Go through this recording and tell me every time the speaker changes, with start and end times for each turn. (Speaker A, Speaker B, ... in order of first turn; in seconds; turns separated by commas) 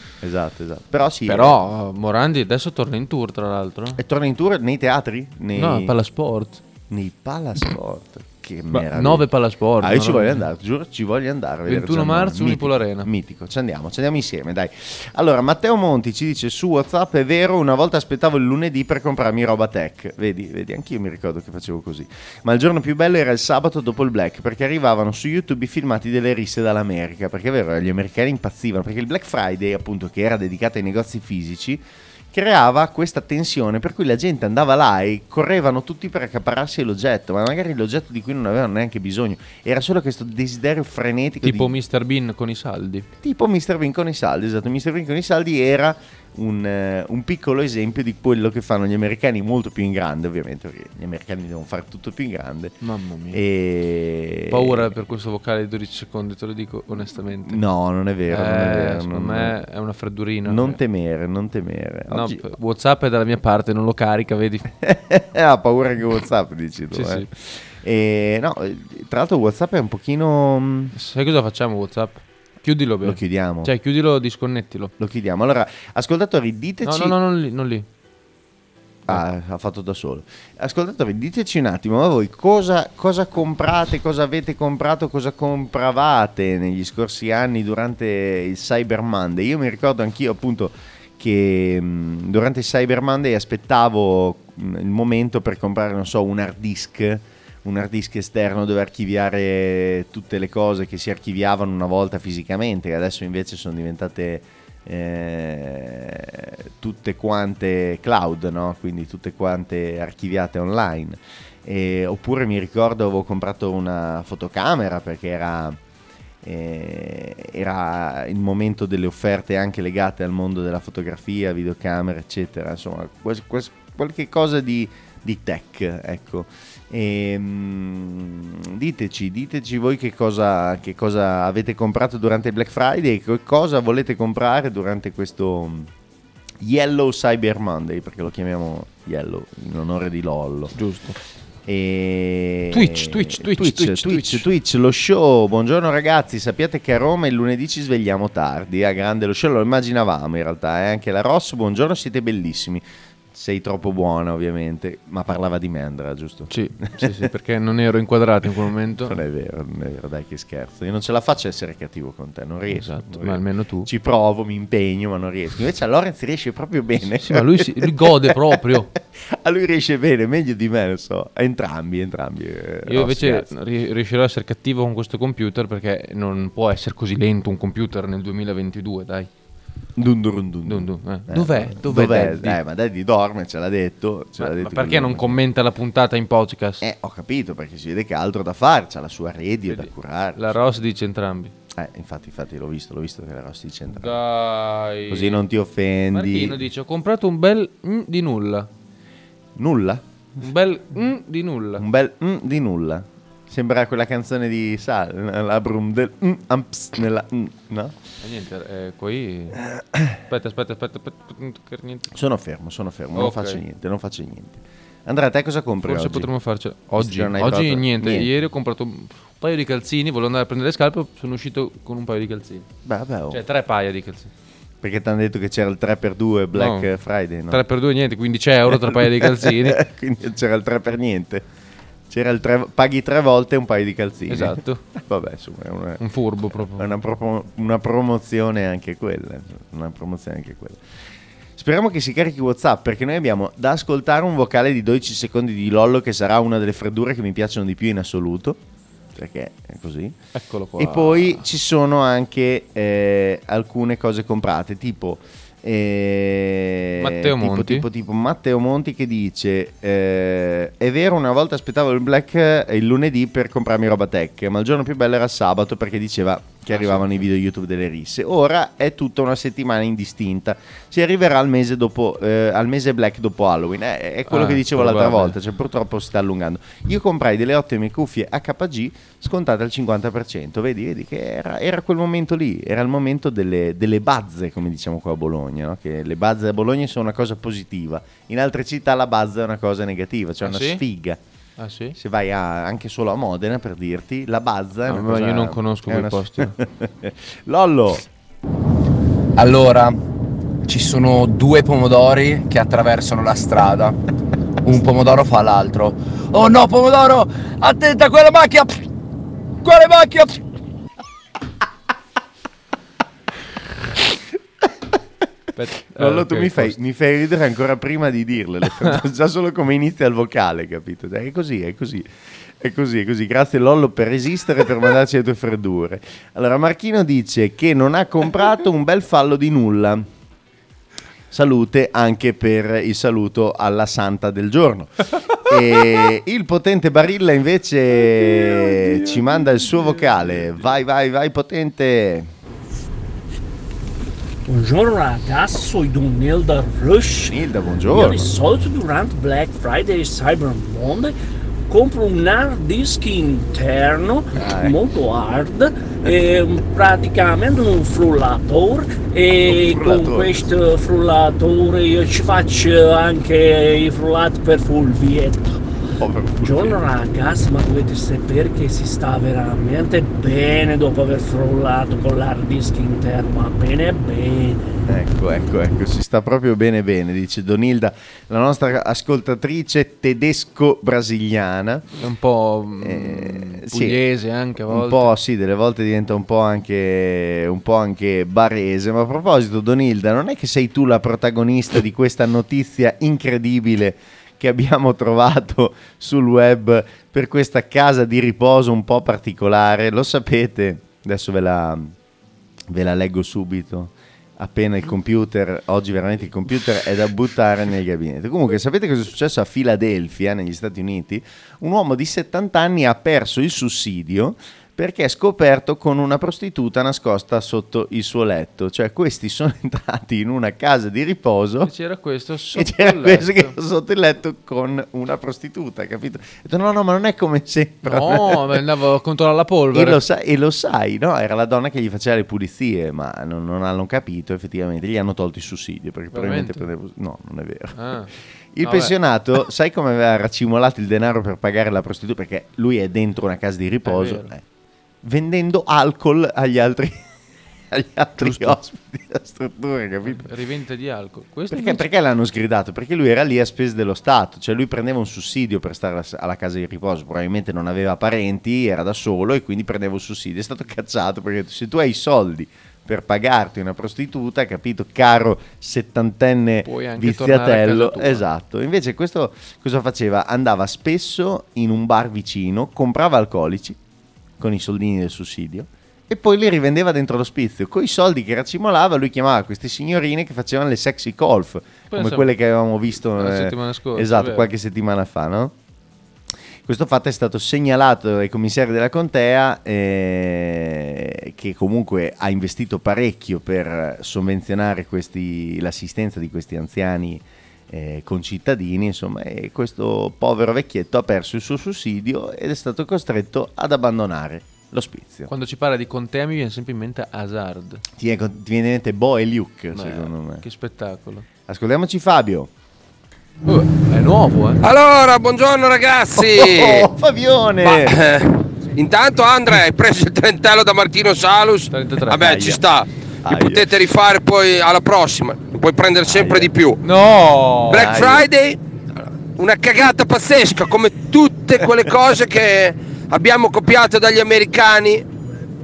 Speaker A: 0.2-1.6, Speaker B: 1.3-4.0, Speaker A: 4.0-5.9, Speaker B: 5.5-6.6, Speaker A: 6.9-41.8, Speaker B: 8.7-10.5, Speaker B: 11.7-13.1, Speaker B: 41.4-43.1, Speaker A: 43.2-52.8, Speaker B: 52.8-53.4, Speaker A: 53.3-54.9, Speaker B: 54.5-57.6, Speaker A: 57.5-59.6, Speaker B: 58.3-60.8, Speaker A: 60.5-62.5, Speaker B: 62.1-64.7, Speaker A: 64.8-71.0, Speaker B: 66.9-67.3, Speaker B: 71.0-74.9, Speaker A: 73.0-73.7, Speaker A: 75.0-77.2, Speaker B: 76.8-77.9, Speaker A: 79.1-115.8, Speaker A: 116.4-135.9, Speaker A: 136.6-140.8, Speaker B: 140.8-141.2, Speaker A: 141.7-157.3, Speaker B: 142.7-144.5, Speaker B: 156.5-159.2, Speaker A: 159.0-173.5, Speaker B: 162.7-163.9, Speaker B: 167.1-168.9, Speaker B: 172.9-179.3, Speaker A: 180.0-185.4, Speaker B: 180.7-182.6, Speaker B: 184.4-186.8, Speaker A: 186.8-190.6, Speaker B: 189.7-191.5, Speaker A: 191.7-194.2, Speaker B: 193.9-195.4, Speaker A: 195.1-196.6, Speaker B: 196.1-198.7, Speaker A: 199.6-200.0, Speaker B: 200.4-201.8, Speaker A: 201.8-207.9, Speaker B: 208.2-209.6, Speaker A: 209.7-210.2, Speaker B: 210.3-212.1, Speaker A: 212.1-216.3, Speaker B: 213.2-213.6, Speaker B: 215.8-222.7, Speaker A: 216.9-218.3, Speaker A: 222.8-223.4, Speaker B: 223.3-224.3, Speaker A: 224.8-227.6, Speaker B: 226.5-226.9, Speaker B: 227.5-229.8, Speaker A: 228.7-231.4, Speaker A: 232.1-240.8, Speaker B: 234.3-234.8, Speaker B: 236.0-236.9, Speaker A: 241.6-248.6, Speaker A: 249.2-250.2, Speaker B: 250.3-251.5, Speaker A: 250.8-291.2, Speaker B: 257.0-257.9, Speaker B: 266.7-267.3, Speaker B: 274.3-275.4, Speaker B: 290.4-290.8, Speaker B: 291.6-292.0, Speaker A: 291.9-298.1, Speaker B: 294.9-296.6, Speaker C: 299.4-300.0, Speaker C: 300.6-304.0, Speaker C: 304.6-308.8, Speaker C: 309.6-310.4, Speaker B: 315.6-316.8, Speaker A: 316.0-322.1, Speaker A: 322.6-330.1, Speaker A: 331.3-342.3, Speaker B: 338.8-340.7, Speaker D: 344.5-347.4, Speaker A: 347.2-348.3, Speaker D: 347.9-351.1, Speaker D: 351.7-365.6, Speaker A: 354.3-354.8, Speaker A: 359.4-360.5, Speaker A: 366.0-366.8, Speaker D: 366.4-374.6, Speaker A: 374.9-381.9, Speaker B: 382.0-385.1, Speaker A: 382.8-384.0, Speaker A: 384.7-401.9, Speaker A: 402.7-421.7, Speaker B: 421.6-423.6, Speaker A: 422.5-428.6, Speaker B: 427.8-430.0, Speaker A: 429.7-437.8, Speaker B: 436.1-436.7, Speaker B: 437.8-438.1, Speaker A: 438.5-444.4, Speaker B: 438.6-438.9, Speaker B: 443.9-444.3, Speaker A: 445.0-447.0, Speaker A: 447.7-450.3, Speaker B: 448.2-448.6, Speaker B: 450.1-451.9, Speaker A: 451.5-473.8, Speaker B: 466.6-468.3, Speaker A: 474.4-485.5, Speaker B: 481.9-482.3, Speaker B: 483.0-484.5, Speaker A: 486.7-505.3, Speaker B: 505.3-507.8, Speaker A: 508.0-510.4, Speaker B: 509.7-511.3, Speaker A: 511.5-512.5, Speaker B: 513.5-514.6, Speaker E: 514.6-516.9, Speaker A: 516.2-518.0, Speaker E: 517.6-526.8, Speaker B: 521.7-522.4, Speaker A: 522.2-522.6, Speaker A: 523.2-523.7, Speaker A: 526.1-526.5, Speaker B: 526.8-528.0, Speaker E: 527.7-528.6, Speaker A: 527.7-528.3, Speaker E: 529.4-535.1